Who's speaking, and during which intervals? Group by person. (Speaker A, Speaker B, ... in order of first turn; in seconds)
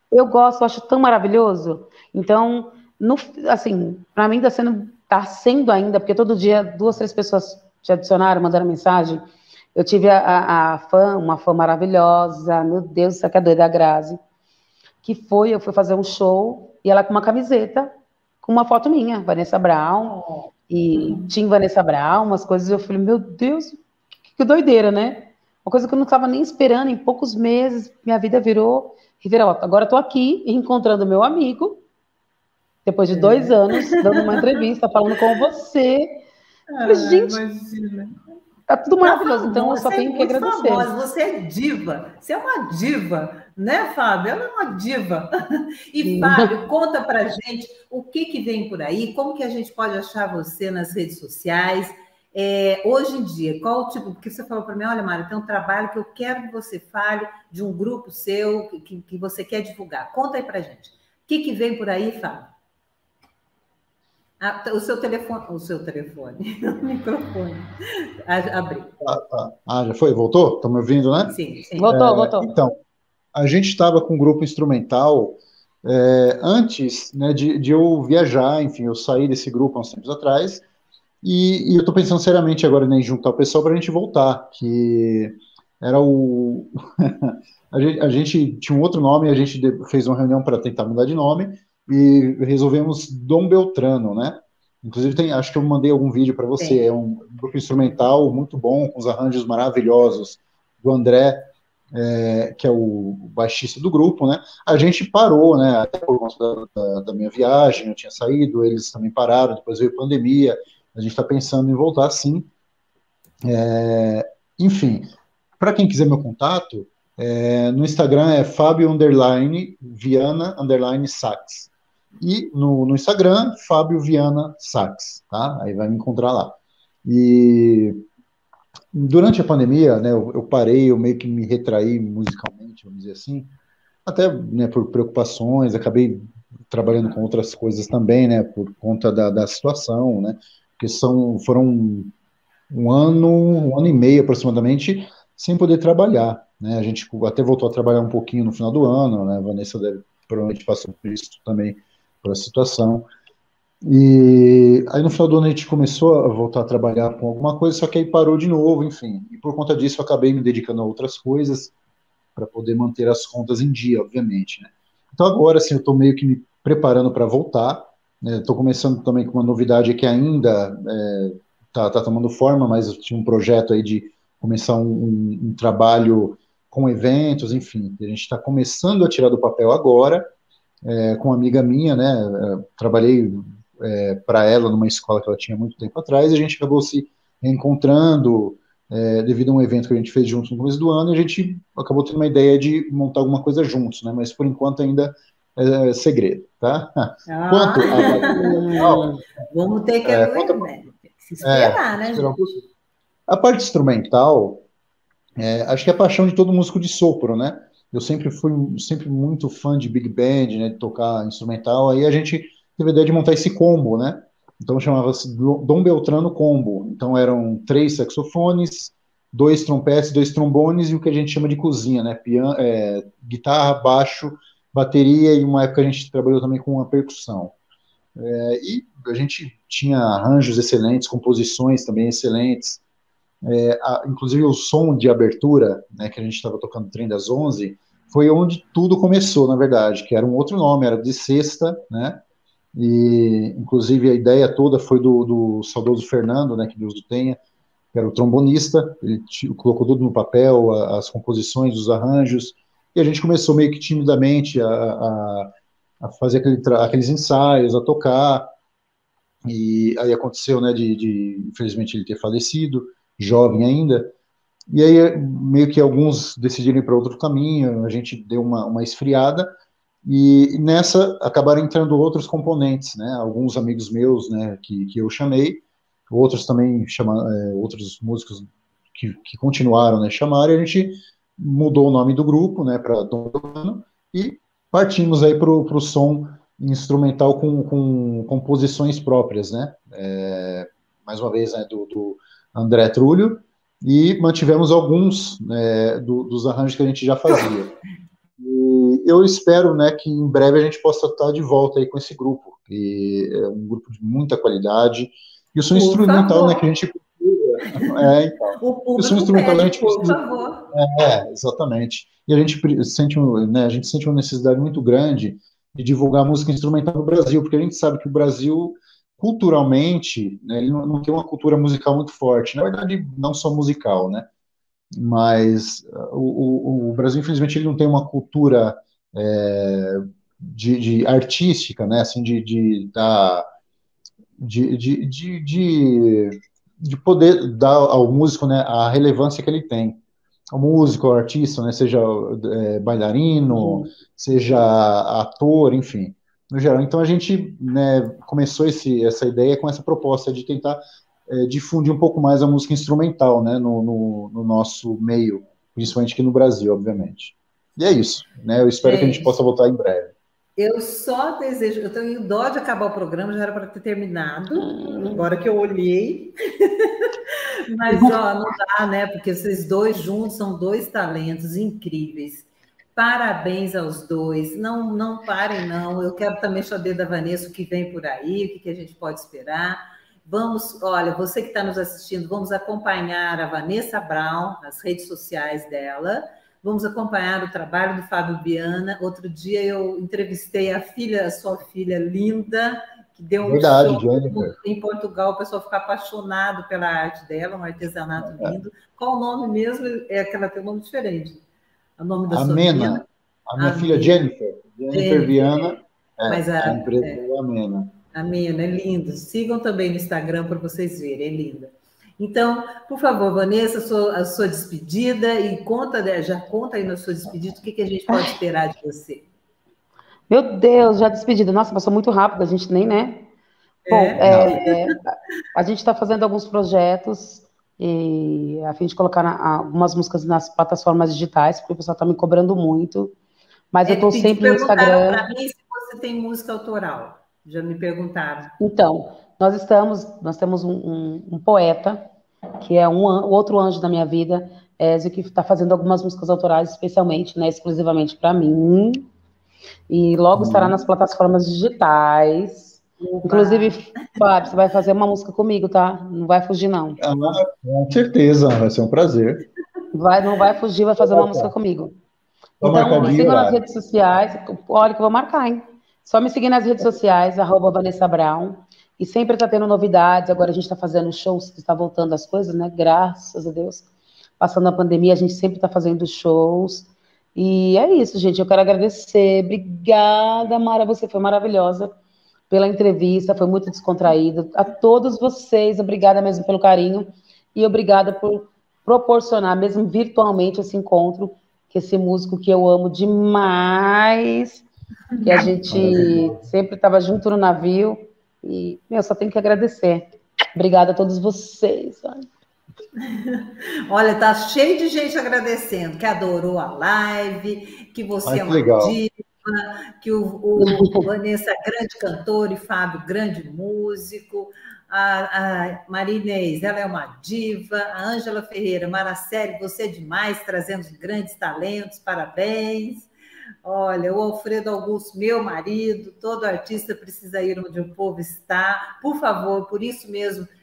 Speaker A: 0.1-9.2, 9.8-14.2, 15.0-20.2, 20.7-23.8, 24.3-31.8, 32.9-36.2, 36.8-37.4, 38.7-40.9, 46.0-46.5, 71.8-72.5, 198.3-199.2, 343.5-343.9, 364.6-365.2, 367.9-368.2, 420.3-423.3, 423.9-433.1, 433.7-435.2, 438.6-442.1, 442.6-449.1, 449.9-457.0, 459.9-461.9, 462.6-473.9, 474.4-481.9, 482.5-494.6, 495.2-502.3, 510.6-511.1
Speaker B: 20.0-21.3, 33.1-34.6, 36.7-38.2, 39.0-62.5, 64.4-67.7, 68.2-68.9, 71.3-71.9, 96.6-96.9, 197.3-202.3, 305.7-306.7, 307.8-310.7, 358.8-359.3, 360.6-401.4, 402.0-403.1, 403.6-404.3, 404.9-407.2, 408.1-419.3, 423.9-425.0, 433.9-438.5, 453.0-453.8, 462.7-463.3, 495.1-495.5, 503.0-523.1, 523.6-530.5
Speaker C: 69.0-72.8, 73.3-80.6, 81.2-112.5, 113.5-128.0, 128.9-133.5, 134.1-142.1, 142.7-153.1, 153.8-161.7, 162.4-180.3, 180.8-199.1, 200.1-200.7, 201.4-202.7, 203.3-204.6, 205.4-227.6, 228.2-232.8, 233.4-242.2, 242.8-247.4, 247.9-258.5, 259.4-264.1, 264.7-269.5, 270.1-297.7, 298.4-310.2, 310.7-324.3, 324.9-333.5, 334.4-340.0, 340.5-360.1, 393.4-394.5, 398.2-398.6, 402.3-407.9, 424.2-424.6, 450.4-450.8, 457.0-459.4, 461.0-461.5, 462.6-463.6, 495.7-496.4, 508.2-509.0